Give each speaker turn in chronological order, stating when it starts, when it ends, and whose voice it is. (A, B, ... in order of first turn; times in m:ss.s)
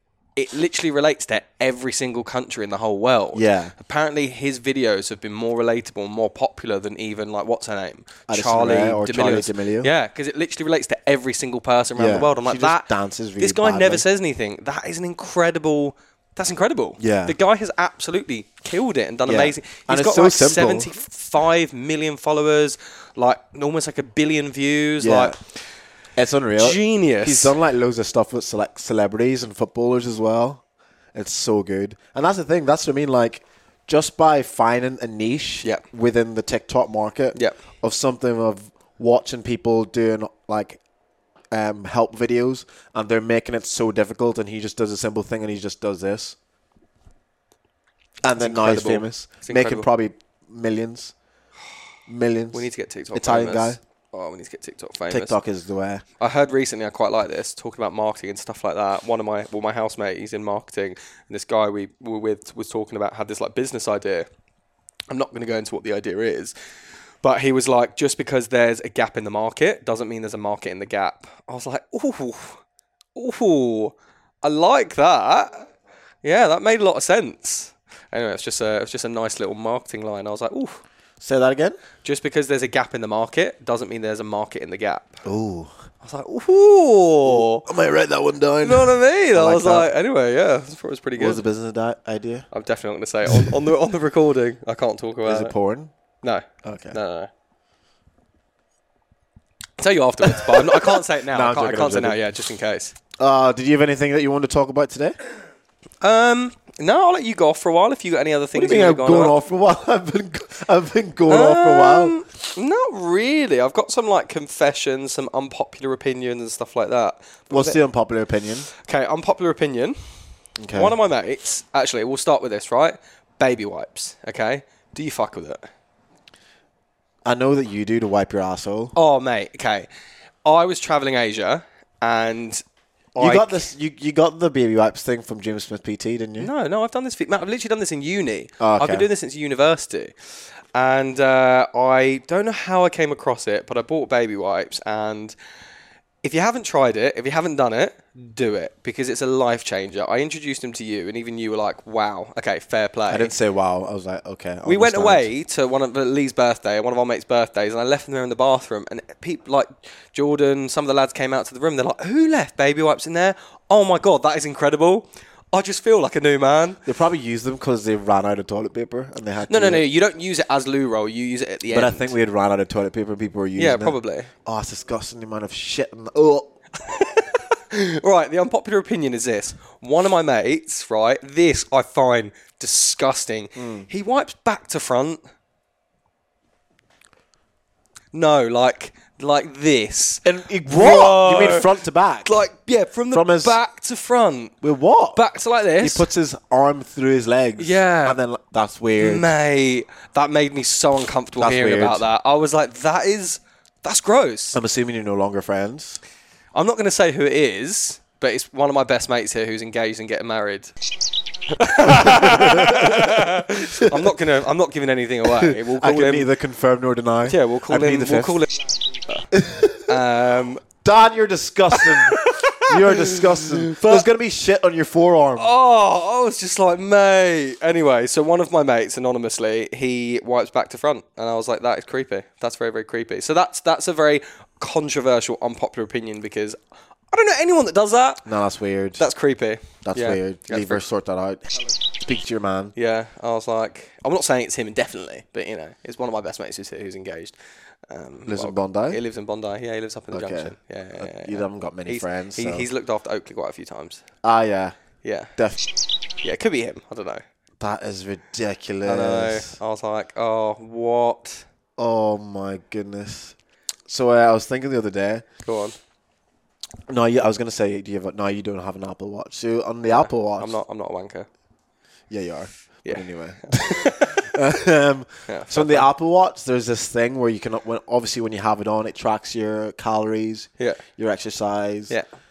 0:00.4-0:12.9 A
0:03.3-0:03.7 B
0:08.3-0:09.9 B
0:12.0-0:14.0 B
0:13.4-0:25.4 A
0:17.0-0:17.4 B
0:19.3-0:20.9 B
0:25.0-0:25.4 B
0:26.2-0:30.6 B
0:26.6-0:27.5 A
0:31.2-0:40.8 B
0:41.5-0:46.4 B
0:48.2-0:51.1 B
0:48.4-0:49.9 A
0:52.1-0:53.8 B
0:52.5-0:55.4 A
0:55.1-0:56.0 B
0:56.2-1:04.3 A
1:05.1-1:06.5 A
1:07.2-1:12.6 A
1:13.2-1:15.7 A
1:16.2-1:20.8 A
1:21.2-1:21.8 B
1:22.0-1:25.2 A
1:25.2-1:25.7 B
1:26.0-1:27.7 A
1:27.3-1:29.9 B
1:28.6-1:31.4 A
1:31.2-1:32.5 B
1:32.5-1:35.5 A
1:33.3-1:33.6 B
1:35.2-1:35.9 B
1:36.2-1:37.3 A
1:36.6-1:37.0 B
1:39.8-1:43.0 A
1:40.2-1:42.2 B
1:43.2-1:45.2 B
1:46.0-1:49.4 A
1:48.6-1:52.2 B
1:51.3-1:57.8 A
1:57.5-1:58.7 B
1:58.8-2:00.0 A
2:00.6-2:01.0 B
2:00.7-2:05.6 A
2:07.2-2:08.9 B
2:09.0-2:09.9 A
2:10.4-2:12.6 A
2:13.2-2:16.5 B
2:13.2-2:13.7 A
2:16.4-2:20.1 A
2:18.6-2:19.1 B
2:20.8-2:25.4 A
2:26.2-2:33.3 A
2:33.1-2:35.3 B
2:34.6-2:46.8 A
2:46.8-2:49.8 B
2:49.5-2:52.1 A
2:51.7-2:56.5 B
2:53.6-2:54.3 A
2:56.8-3:05.2 A
3:03.6-3:03.9 B
3:08.1-3:14.6 A
3:10.2-3:12.4 B
3:13.1-3:13.6 B
3:14.6-3:15.2 B
3:15.1-3:16.1 A
3:15.8-3:19.3 B
3:17.6-3:18.2 A
3:19.0-3:24.6 A
3:21.4-3:22.1 B
3:24.5-3:26.0 B
3:26.6-3:30.7 A
3:31.5-3:36.3 A
3:31.8-3:34.1 B
3:35.2-3:38.4 B
3:37.3-3:38.6 A
3:39.3-3:40.0 B
3:39.9-3:40.6 A
3:40.8-3:45.5 B
3:41.7-3:44.1 A
3:45.4-3:56.6 A
3:57.1-3:58.3 A
3:58.2-3:59.0 B
3:59.0-4:00.8 A
3:59.8-4:02.7 B
4:02.8-4:07.4 A
4:07.9-4:14.0 A
4:08.3-4:09.0 B
4:10.1-4:12.7 B
4:14.2-4:14.8 B
4:15.0-4:15.4 A
4:15.4-4:15.7 B
4:16.2-4:17.2 A
4:17.6-4:19.6 B
4:18.8-4:21.4 A
4:21.8-4:23.4 B
4:23.9-4:25.3 B
4:25.4-4:25.8 A
4:26.9-4:30.6 B
4:29.9-4:31.3 A
4:32.1-4:42.0 B
4:32.8-4:34.3 A
4:35.3-4:35.9 A